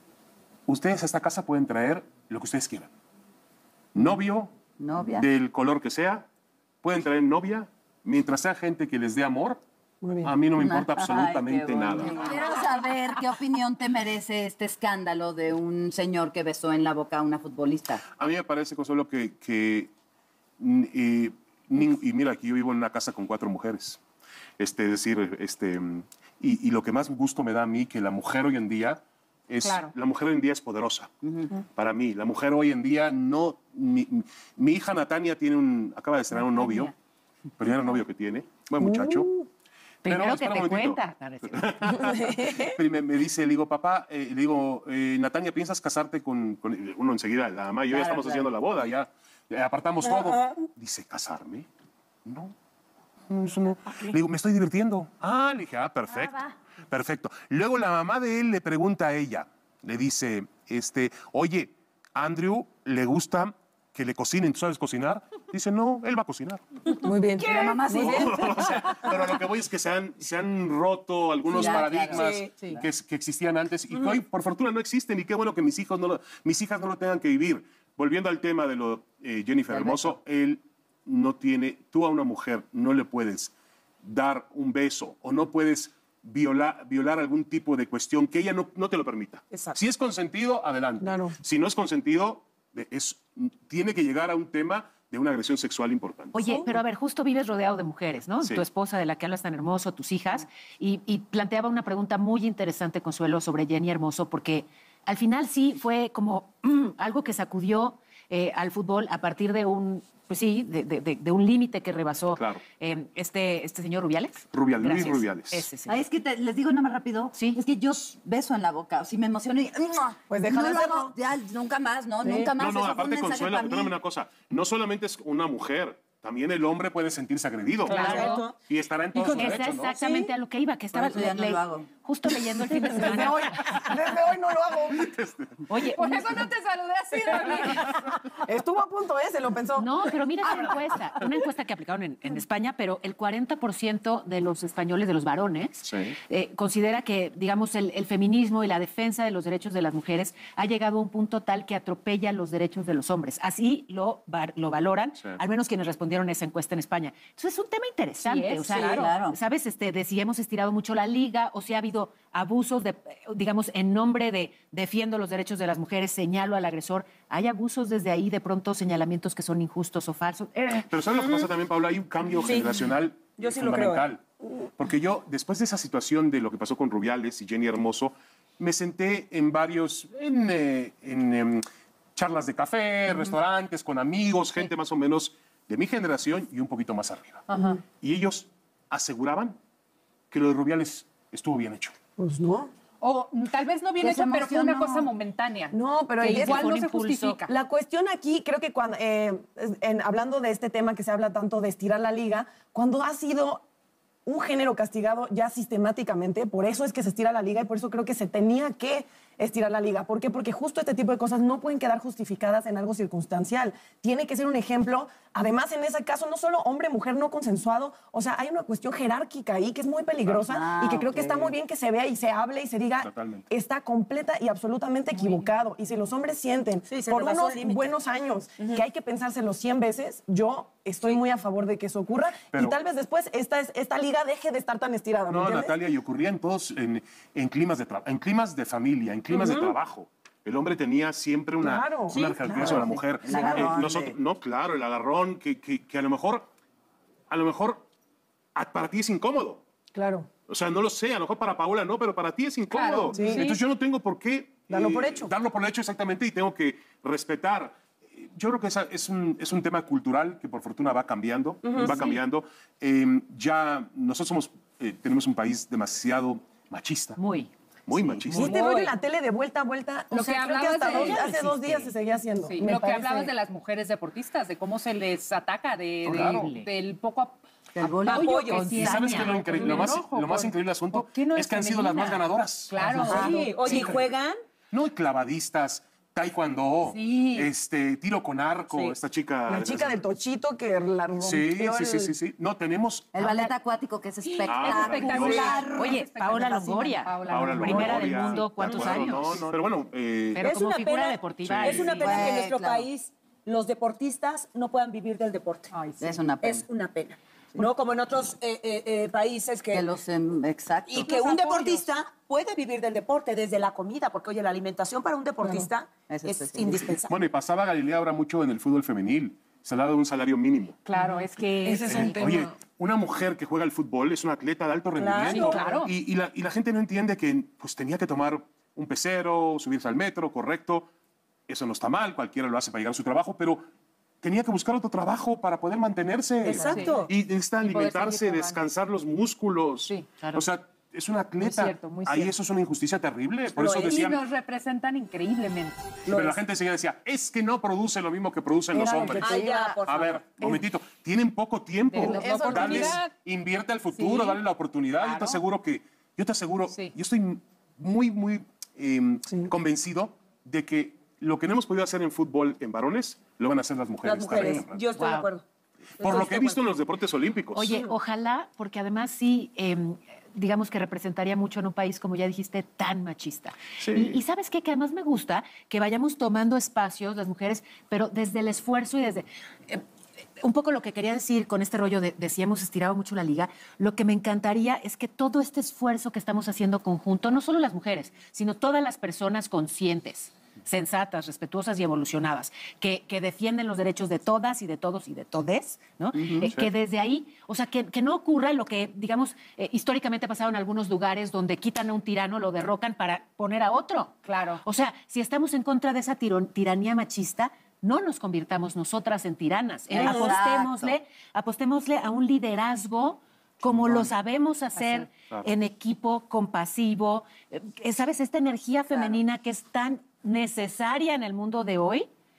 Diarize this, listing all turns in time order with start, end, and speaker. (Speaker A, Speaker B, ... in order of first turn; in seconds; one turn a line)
Speaker A: 0.7-2.9
Speaker A: 3.9-4.5
Speaker B: 4.8-5.3
Speaker A: 5.1-6.2
Speaker A: 6.8-9.6
Speaker C: 10.0-10.3
Speaker A: 10.2-12.2
Speaker B: 10.6-18.0
Speaker A: 18.2-19.9
Speaker A: 20.6-24.0
Speaker A: 24.6-36.9
Speaker D: 29.6-29.9
Speaker E: 36.4-36.9
Speaker A: 37.6-39.3
Speaker C: 38.8-39.5
Speaker E: 40.0-41.8
Speaker A: 40.0-51.7
Speaker C: 41.8-42.8
Speaker B: 47.9-48.5
Speaker A: 52.2-52.5
Speaker A: 53.3-66.8
Speaker C: 66.9-69.0
Speaker B: 67.4-68.7
Speaker A: 67.6-96.4
Speaker B: 71.5-72.8
Speaker F: 72.1-72.5
Speaker B: 79.7-80.1
Speaker C: 91.0-91.3
Speaker E: 96.3-116.0
Speaker C: 96.4-96.8
Speaker A: 112.3-112.6
Speaker A: 114.5-115.7
Speaker B: 115.8-123.9
Speaker E: 117.3-117.6
Speaker C: 120.3-121.1
Speaker C: 122.2-122.5
Speaker A: 122.6-129.9
Speaker D: 127.9-128.4
Speaker E: 127.9-128.5
Speaker F: 127.9-128.5
Speaker E: 129.1-134.0
Speaker F: 129.9-130.3
Speaker B: 130.9-131.9
Speaker C: 132.8-135.1
Speaker A: 134.9-135.8
Speaker E: 135.7-136.5
Speaker D: 135.9-137.9
Speaker C: 137.8-140.9
Speaker E: 139.8-170.9
Speaker A: 145.8-146.2
Speaker D: 158.2-159.1
Speaker B: 158.8-159.4
Speaker A: 170.9-174.2
Speaker F: 172.4-172.7
Speaker F: 173.4-174.0
Speaker A: 174.8-187.5
Speaker D: 187.5-187.8
Speaker A: 188.0-189.6
Speaker A: 190.3-191.9
Speaker C: 192.2-192.7
Speaker D: 193.0-197.5
Speaker B: 194.0-195.1
Speaker C: 195.7-196.7
Speaker E: 196.3-197.4
Speaker C: 197.5-203.6
Speaker C: 204.2-235.7
Speaker B: 220.4-221.5
Speaker A: 223.0-223.4
Speaker D: 225.1-225.5
Speaker F: 226.9-227.9
Speaker A: 235.3-246.5
Speaker C: 239.3-239.7
Speaker C: 241.6-243.8
Speaker F: 242.1-242.6
Speaker B: 242.5-244.1
Speaker A: 247.3-247.8
Speaker A: 248.5-249.6
Speaker C: 249.9-250.3
Speaker A: 250.5-267.2
Speaker D: 252.7-253.6
Speaker C: 253.1-253.5
Speaker C: 254.7-255.3
Speaker C: 261.6-262.0
Speaker E: 267.2-268.4
Speaker A: 267.9-268.6
Speaker C: 268.3-273.3
Speaker D: 268.5-268.9
Speaker D: 270.1-271.3
Speaker E: 270.8-271.9
Speaker D: 272.4-277.4
Speaker A: 276.0-276.5
Speaker E: 276.1-276.7
Speaker B: 277.8-278.3
Speaker F: 278.0-278.8
Speaker D: 278.1-283.9
Speaker E: 278.5-280.0
Speaker A: 278.7-284.1
Speaker B: 282.9-283.4
Speaker F: 283.1-284.4
Speaker A: 284.7-290.0
Speaker D: 286.8-287.5
Speaker E: 288.7-288.9
Speaker C: 289.5-292.1
Speaker A: 291.2-293.2
Speaker B: 293.1-296.0
Speaker E: 293.2-293.5
Speaker A: 294.4-295.7
Speaker D: 294.5-298.4
Speaker E: 295.7-299.4
Speaker A: 297.3-300.5
Speaker C: 297.6-298.0
Speaker E: 300.3-302.3
Speaker F: 300.4-305.7
Speaker A: 301.4-302.1
Speaker B: 302.0-302.9
Speaker D: 305.7-306.2
Speaker B: 306.0-306.6
Speaker F: 306.3-309.9
Speaker B: 309.7-311.4
Speaker F: 310.9-317.1
Speaker D: 311.0-311.9
Speaker C: 315.4-315.7
Speaker B: 316.1-317.0
Speaker A: 317.1-320.8
Speaker D: 320.9-322.0
Speaker C: 320.9-322.5
Speaker A: 321.8-330.9
Speaker F: 324.9-325.8
Speaker D: 325.3-325.9
Speaker A: 331.5-333.6
Speaker A: 334.2-344.2
Speaker F: 336.4-337.1
Speaker D: 336.6-338.6
Speaker E: 340.2-340.4
Speaker D: 341.4-342.3
Speaker F: 343.6-343.9
Speaker D: 343.8-346.0
Speaker A: 346.1-364.8
Speaker F: 346.1-346.3
Speaker C: 348.7-349.8
Speaker F: 349.2-350.2
Speaker C: 350.4-350.6
Speaker D: 351.9-353.1
Speaker C: 352.0-353.0
Speaker D: 353.9-354.4
Speaker D: 354.9-355.4
Speaker D: 356.7-356.9
Speaker F: 364.0-365.4
Speaker E: 364.9-365.3
Speaker F: 366.0-366.6
Speaker A: 366.0-367.8
Speaker E: 367.5-379.8
Speaker A: 373.8-374.2
Speaker E: 380.4-422.1
Speaker B: 396.1-396.5
Speaker A: 396.4-396.7
Speaker D: 404.2-404.6
Speaker B: 409.9-410.9
Speaker F: 409.9-410.3
Speaker A: 413.6-414.1
Speaker D: 414.8-415.1
Speaker B: 418.9-419.2